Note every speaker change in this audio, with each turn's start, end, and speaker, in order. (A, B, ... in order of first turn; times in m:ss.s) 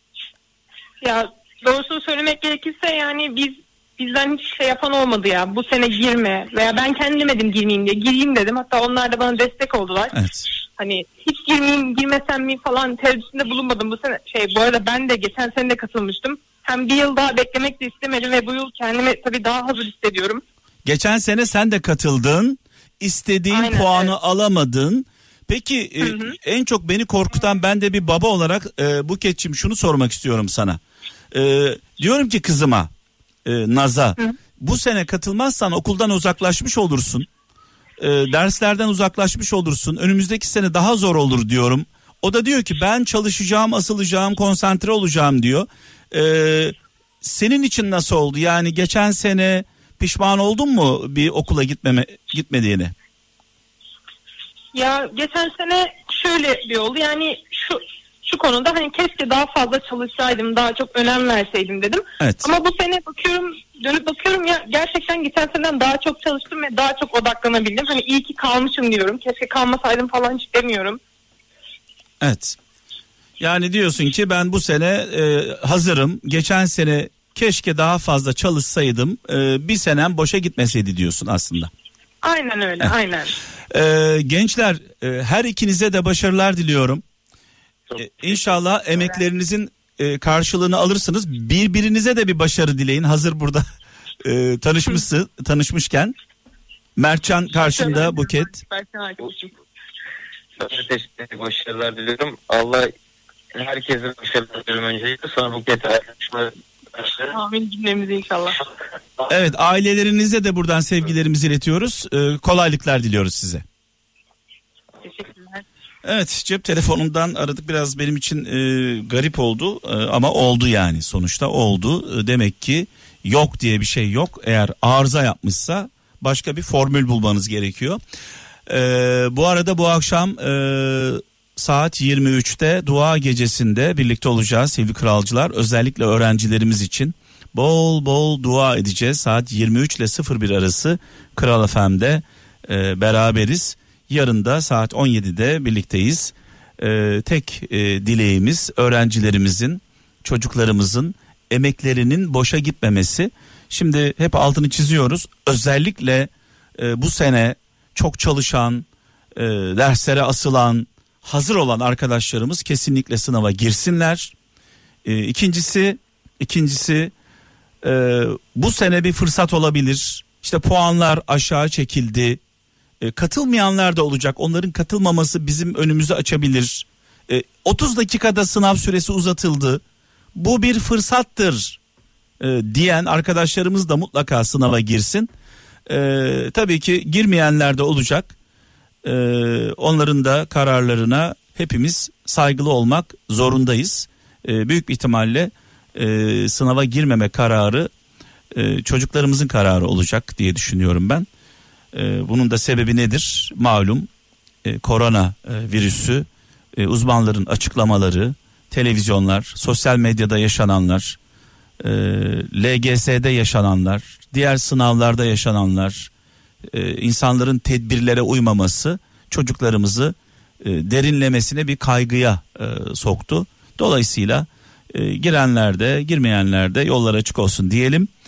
0:01.0-0:10.2 A
0:10.1-0:10.5 B
0:10.8-0:20.4 A
0:20.8-0:30.8 B
0:23.5-0:24.1 A
0:26.0-0:26.4 A
0:31.3-0:32.9 B
0:33.4-0:37.3 B
0:38.0-0:52.9 B
0:54.7-1:11.0 A
1:02.2-1:02.5 B
1:12.2-1:12.6 B
1:13.4-1:21.7 B
1:22.2-1:23.4 A
1:23.7-1:27.0 B
1:28.0-1:33.6 B
1:34.2-1:36.2 B
1:37.0-1:38.6 B
1:37.6-1:39.5 A
1:40.6-1:42.9 C
1:43.6-1:47.3 C
1:47.3-1:48.6 A
1:49.3-1:53.6 B
1:55.0-1:55.6 A
1:56.0-2:08.0 B
2:08.7-2:44.3 B
2:45.0-2:47.1 B
2:47.8-2:52.4 B
2:53.0-2:59.8 B
3:00.4-3:01.8 B
3:02.4-3:05.3 B
3:05.9-3:08.3 B
3:09.0-3:17.9 B
3:18.5-3:21.3 B
3:21.9-3:24.1 B
3:24.6-3:31.2 B
3:31.8-3:36.1 B
3:36.7-3:48.1 B